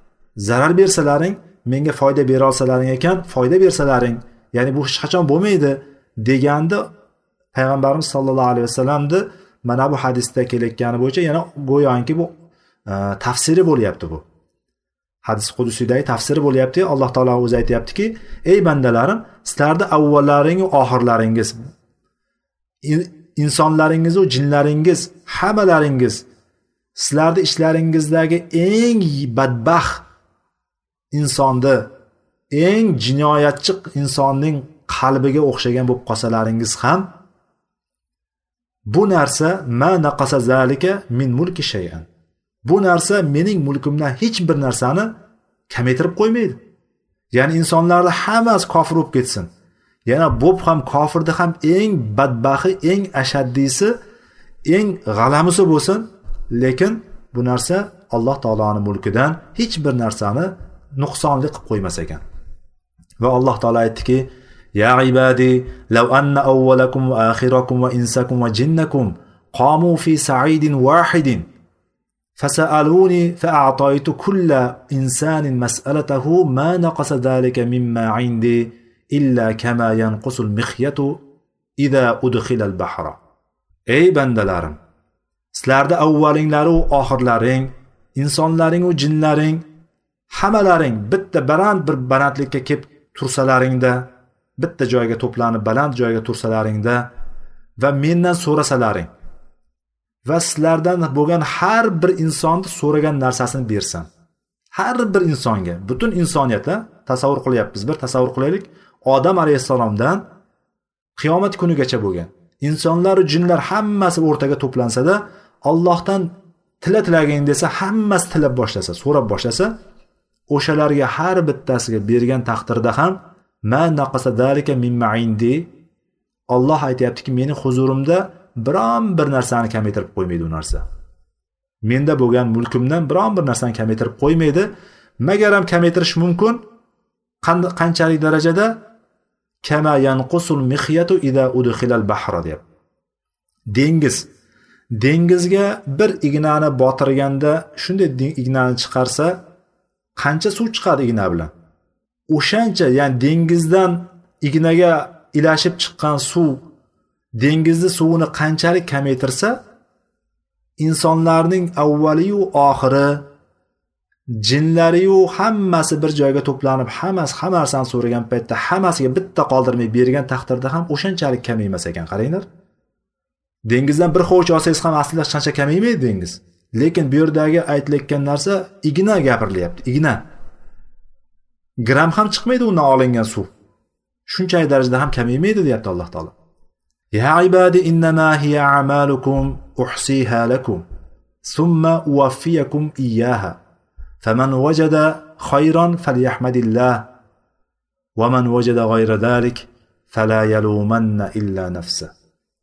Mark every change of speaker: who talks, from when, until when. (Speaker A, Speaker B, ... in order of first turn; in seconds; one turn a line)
Speaker A: 0.4-6.9
Speaker A: 7.5-12.3
Speaker A: 12.9-14.2
Speaker A: 15.2-21.6
Speaker A: 22.8-26.2
Speaker A: 26.9-30.1
Speaker A: 31.1-31.9
Speaker A: 32.5-37.1
Speaker A: 38.9-42.1
Speaker A: 42.6-45.1
Speaker A: 45.7-46.6
Speaker A: 47.3-49.5
Speaker A: 50.1-54.0
Speaker A: 54.6-62.2
Speaker A: 63.2-71.5
Speaker A: 72.4-81.2
Speaker A: 81.8-83.2
Speaker A: 83.9-84.8
Speaker A: 85.5-89.6
Speaker A: 90.3-97.1
Speaker A: 97.8-99.1
Speaker A: 100.2-104.1
Speaker A: 104.7-110.2
Speaker A: 111.2-119.7
Speaker A: 120.5-125.7
Speaker A: 126.5-130.8
Speaker A: 131.8-136.6
Speaker A: 137.4-138.8
Speaker A: 139.6-142.6
Speaker A: 143.7-144.3
Speaker A: 144.9-149.4
Speaker A: 150.2-151.5
Speaker A: 152.3-156.7
Speaker A: 157.4-159.6
Speaker A: 160.8-163.3
Speaker A: 164.3-172.4
Speaker A: 173.7-180.2
Speaker A: 181.8-183.5
Speaker A: 184.3-186.3
Speaker A: 187.1-190.8
Speaker A: 191.4-193.6
Speaker A: 194.2-197.1
Speaker A: 198.2-202.1